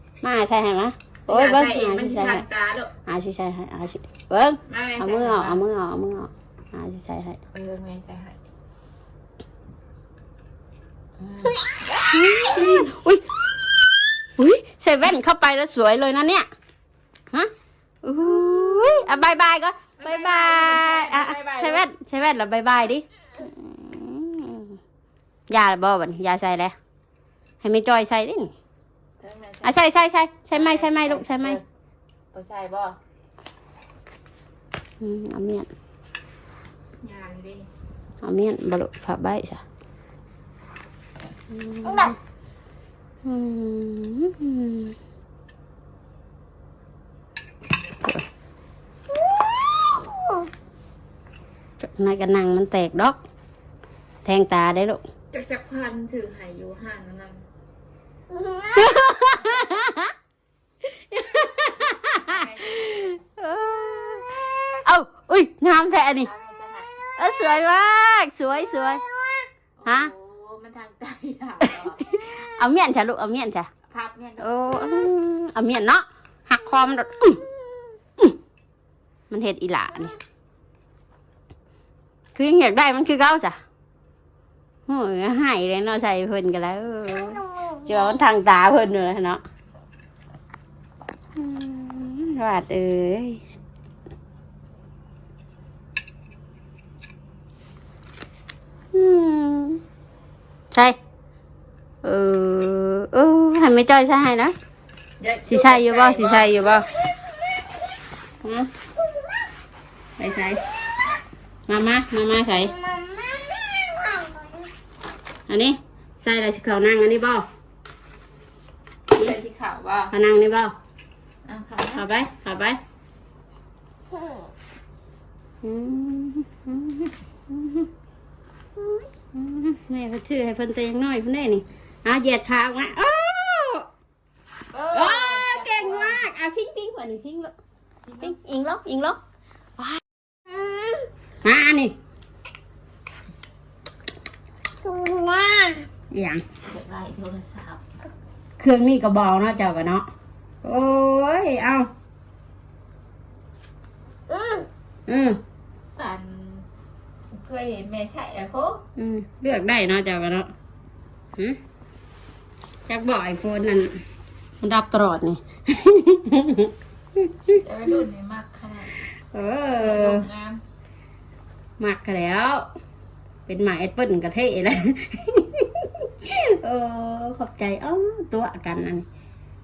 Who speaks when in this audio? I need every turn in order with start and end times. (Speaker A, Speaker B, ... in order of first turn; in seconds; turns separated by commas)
Speaker A: 0.2-2.4, Speaker B: 1.3-2.9, Speaker A: 3.0-7.4, Speaker B: 4.7-5.6, Speaker B: 7.5-8.4, Speaker B: 11.2-11.6, Speaker A: 12.1-16.5, Speaker A: 18.0-24.8, Speaker B: 20.0-21.9, Speaker A: 25.5-26.7, Speaker A: 27.6-28.5, Speaker B: 29.2-29.8, Speaker A: 29.6-31.6, Speaker B: 30.5-31.6, Speaker B: 32.3-33.0, Speaker A: 35.0-35.7, Speaker B: 37.0-37.7, Speaker A: 38.2-39.6, Speaker A: 41.5-42.1, Speaker A: 43.2-45.0, Speaker A: 51.8-53.2, Speaker A: 54.2-55.0, Speaker B: 55.3-57.4, Speaker C: 58.3-58.7, Speaker A: 58.7-60.1, Speaker A: 60.8-66.3, Speaker B: 61.8-63.2, Speaker B: 66.1-66.9, Speaker A: 67.2-69.0, Speaker B: 69.8-72.4, Speaker A: 71.6-73.7, Speaker B: 73.9-74.5, Speaker A: 74.4-77.4, Speaker A: 79.3-80.2, Speaker A: 82.3-83.6, Speaker A: 84.9-89.4, Speaker A: 91.3-93.4, Speaker A: 98.9-99.8, Speaker A: 100.7-101.0, Speaker A: 102.0-104.5, Speaker B: 105.2-106.8, Speaker A: 105.5-106.9, Speaker A: 108.4-108.7, Speaker A: 110.2-110.6, Speaker A: 111.7-112.7, Speaker C: 112.8-114.6, Speaker A: 115.5-117.5, Speaker B: 119.1-120.1, Speaker A: 120.1-120.7, Speaker B: 121.5-122.1, Speaker A: 121.9-122.8, Speaker A: 125.6-127.9, Speaker A: 129.3-133.9, Speaker B: 134.7-136.3, Speaker A: 134.9-137.5, Speaker B: 138.1-138.3, Speaker A: 138.2-139.2, Speaker A: 139.8-140.0, Speaker A: 141.4-141.9, Speaker C: 144.8-145.9, Speaker A: 146.1-146.4, Speaker B: 146.7-147.8, Speaker A: 148.6-150.1, Speaker A: 150.6-151.9, Speaker A: 155.1-155.4, Speaker B: 155.9-156.7, Speaker B: 157.3-158.8, Speaker A: 159.0-160.5, Speaker A: 162.9-164.0, Speaker A: 164.6-167.6, Speaker B: 167.5-169.0, Speaker A: 169.3-170.3, Speaker B: 169.8-170.6, Speaker A: 171.8-172.7, Speaker A: 173.5-179.1